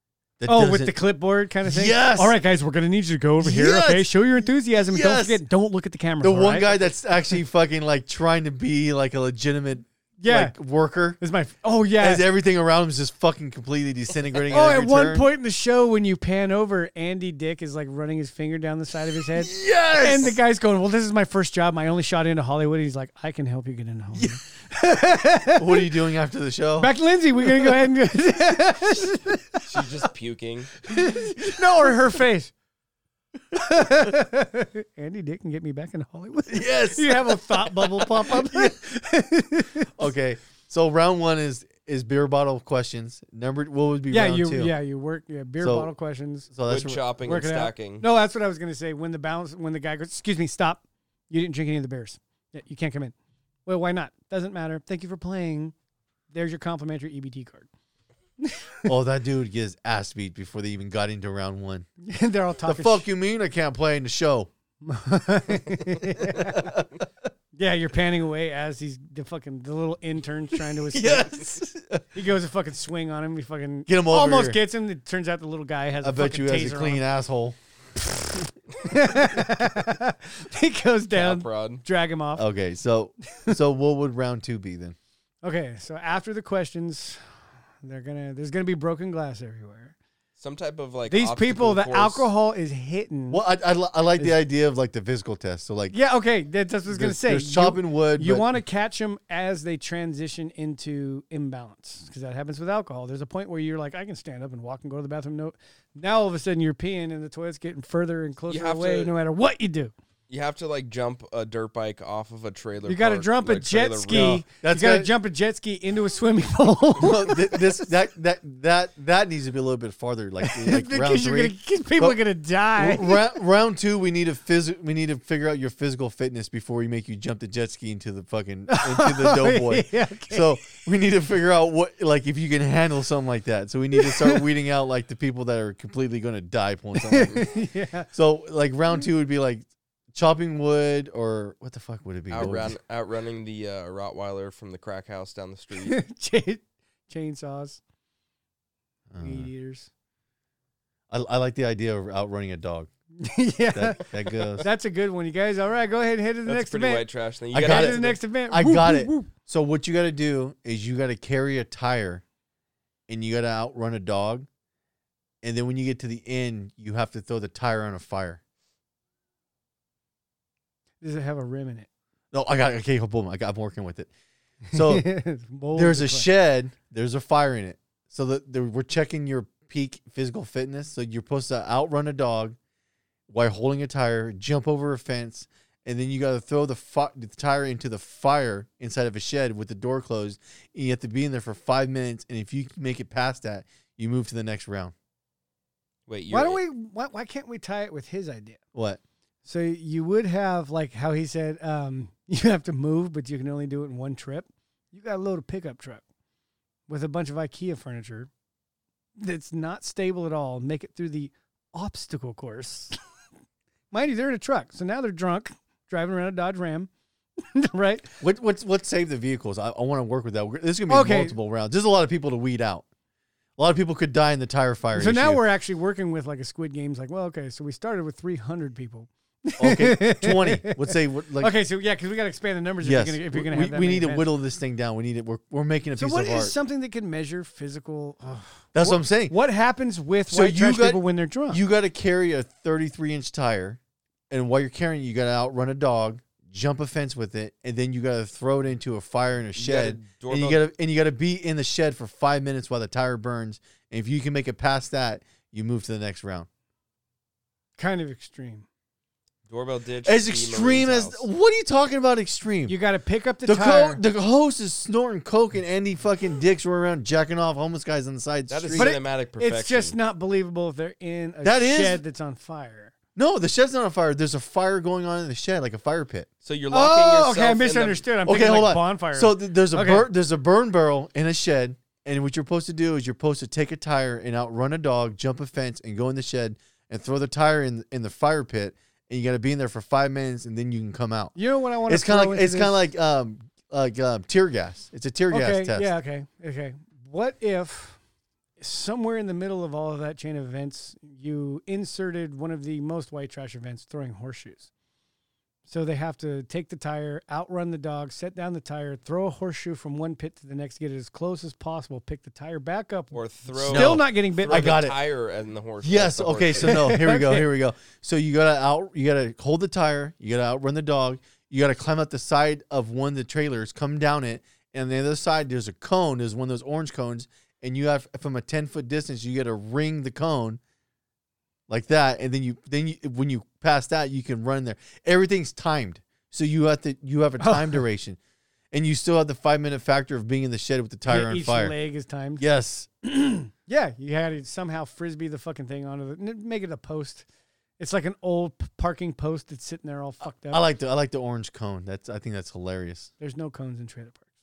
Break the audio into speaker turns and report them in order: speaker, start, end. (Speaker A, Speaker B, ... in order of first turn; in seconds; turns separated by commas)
Speaker A: 0.4-1.0, Speaker B: 0.5-6.8, Speaker A: 1.6-2.4, Speaker A: 3.4-5.4, Speaker A: 6.2-11.2, Speaker B: 10.2-10.6, Speaker B: 11.2-12.2, Speaker A: 12.0-15.3, Speaker B: 14.5-25.9, Speaker A: 19.3-20.4, Speaker A: 24.1-24.4, Speaker A: 25.6-26.9, Speaker B: 26.8-29.6, Speaker C: 29.7-30.8, Speaker B: 30.9-32.5, Speaker B: 33.5-40.1, Speaker A: 36.5-38.8, Speaker A: 40.0-44.7, Speaker B: 44.1-46.5, Speaker A: 45.6-45.9, Speaker A: 46.5-47.0, Speaker C: 46.6-48.0, Speaker B: 47.2-53.1, Speaker B: 53.6-55.7, Speaker B: 56.3-57.7, Speaker B: 58.4-58.9, Speaker A: 58.9-61.9, Speaker B: 62.0-63.1, Speaker A: 62.6-64.5, Speaker B: 64.8-66.8, Speaker A: 66.3-66.9, Speaker B: 67.6-71.4, Speaker A: 70.8-72.0, Speaker B: 72.1-77.0, Speaker A: 73.9-74.6, Speaker A: 76.0-78.5, Speaker B: 78.8-82.5, Speaker C: 81.1-81.8, Speaker A: 82.4-85.0, Speaker B: 85.4-87.2, Speaker B: 87.8-89.9, Speaker C: 90.4-92.3, Speaker B: 91.1-93.4, Speaker A: 93.3-95.9, Speaker B: 95.9-109.9, Speaker A: 96.9-98.5, Speaker C: 108.5-109.1, Speaker C: 110.3-114.4, Speaker B: 112.9-117.8, Speaker A: 114.1-115.1, Speaker A: 117.0-122.2, Speaker B: 120.4-123.4, Speaker A: 122.8-137.5, Speaker B: 128.7-130.6, Speaker B: 134.0-134.4, Speaker B: 136.9-138.1, Speaker A: 138.1-142.8, Speaker C: 142.3-146.0, Speaker B: 145.8-147.8, Speaker A: 149.1-149.5, Speaker B: 149.2-149.9, Speaker A: 151.1-152.9, Speaker B: 153.2-159.3, Speaker A: 153.7-154.7, Speaker C: 156.4-158.2, Speaker A: 157.5-162.2, Speaker A: 163.1-164.5, Speaker A: 165.4-168.4, Speaker B: 171.0-171.9, Speaker A: 172.3-174.1, Speaker A: 174.7-175.1, Speaker B: 174.7-176.3, Speaker A: 175.7-182.6, Speaker A: 183.3-194.9, Speaker C: 196.1-196.6, Speaker B: 196.3-198.6, Speaker A: 198.7-199.0, Speaker B: 199.4-206.0, Speaker B: 206.9-208.3, Speaker B: 209.2-212.9, Speaker B: 213.9-218.2, Speaker A: 218.2-222.8, Speaker B: 220.9-221.3, Speaker A: 223.6-225.4, Speaker B: 224.9-234.3, Speaker A: 229.6-231.5, Speaker A: 232.8-236.5, Speaker B: 235.9-241.6, Speaker A: 238.7-239.4, Speaker A: 240.3-243.8, Speaker A: 244.3-256.5, Speaker C: 249.6-250.6, Speaker B: 257.8-258.6, Speaker C: 259.5-261.2, Speaker A: 260.1-262.8, Speaker B: 262.7-264.0, Speaker A: 263.4-268.9, Speaker C: 268.5-269.9, Speaker B: 268.8-272.9, Speaker A: 271.4-272.0, Speaker A: 273.1-276.3, Speaker C: 276.4-278.0, Speaker B: 276.7-280.1, Speaker A: 278.2-291.3, Speaker B: 291.4-292.8, Speaker A: 291.9-295.9, Speaker B: 295.3-298.0, Speaker B: 298.6-304.7, Speaker B: 305.7-314.8, Speaker C: 313.1-316.8, Speaker A: 313.6-315.0, Speaker A: 315.8-330.6, Speaker B: 316.6-317.5, Speaker A: 331.7-338.2, Speaker B: 337.4-337.8, Speaker A: 338.7-341.7, Speaker B: 341.1-342.4, Speaker A: 342.4-342.9, Speaker B: 343.0-347.2, Speaker B: 347.8-350.6, Speaker A: 350.5-353.1, Speaker B: 353.2-354.2